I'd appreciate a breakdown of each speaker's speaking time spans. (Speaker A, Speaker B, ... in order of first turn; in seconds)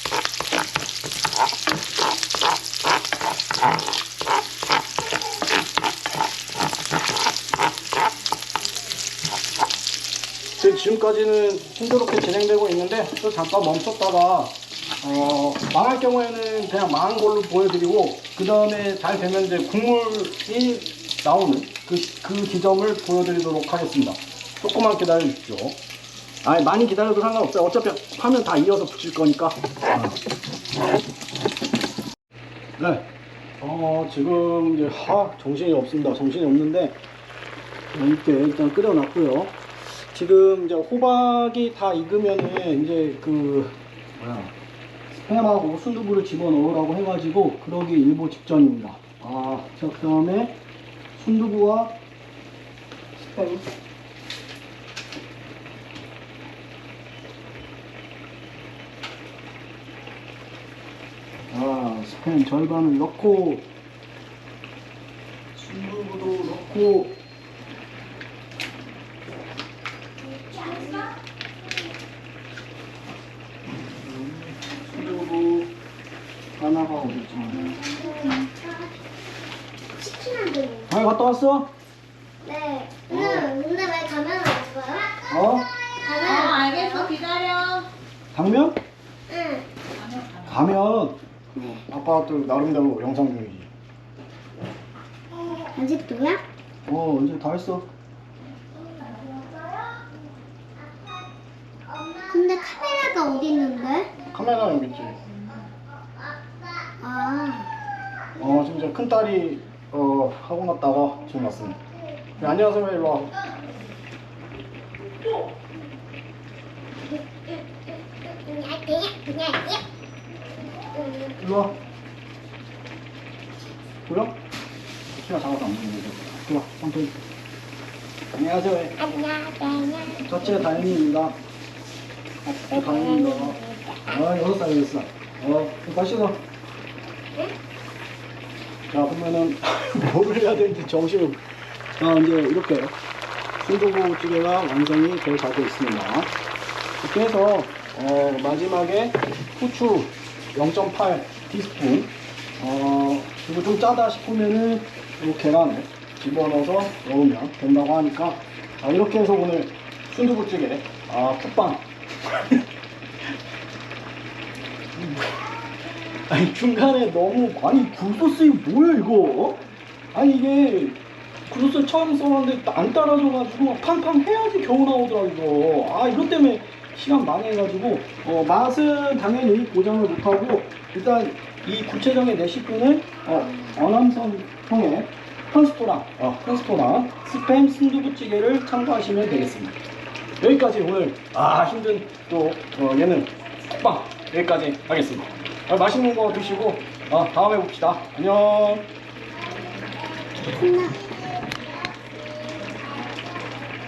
Speaker A: 10.6-25.8, 26.4-30.2, 32.8-33.1, 33.6-37.0, 37.9-39.6, 40.1-44.5, 45.1-50.6, 51.1-52.0, 53.2-53.7, 61.5-63.7, 65.5-67.2, 74.0-75.7, 76.6-77.8, 80.9-81.7, 83.1-83.5, 85.3-85.7, 88.3-88.8, 90.4-93.7, 96.9-97.9, 104.3-105.2, 108.4-111.8, 112.4-113.3, 121.4-121.8, 124.0-124.4, 125.1-127.2, 128.3-129.1, 130.1-131.4, 132.7-136.4, 138.9-141.4, 142.0-143.0, 143.6-146.3, 147.0-162.6, 164.9-165.4, 166.2-169.6, 170.1-171.0, 171.5-189.8, 190.4-198.9
Speaker B: 70.4-71.1, 77.7-78.9, 80.0-80.9, 82.5-85.3, 85.8-87.1, 89.3-89.7, 95.4-96.4, 98.8-100.1, 100.8-101.2, 101.9-104.2, 106.0-107.7, 118.2-119.8, 120.8-121.4, 129.0-130.2, 132.5-134.0, 199.4-203.7
Speaker C: 86.2-87.9, 90.0-90.5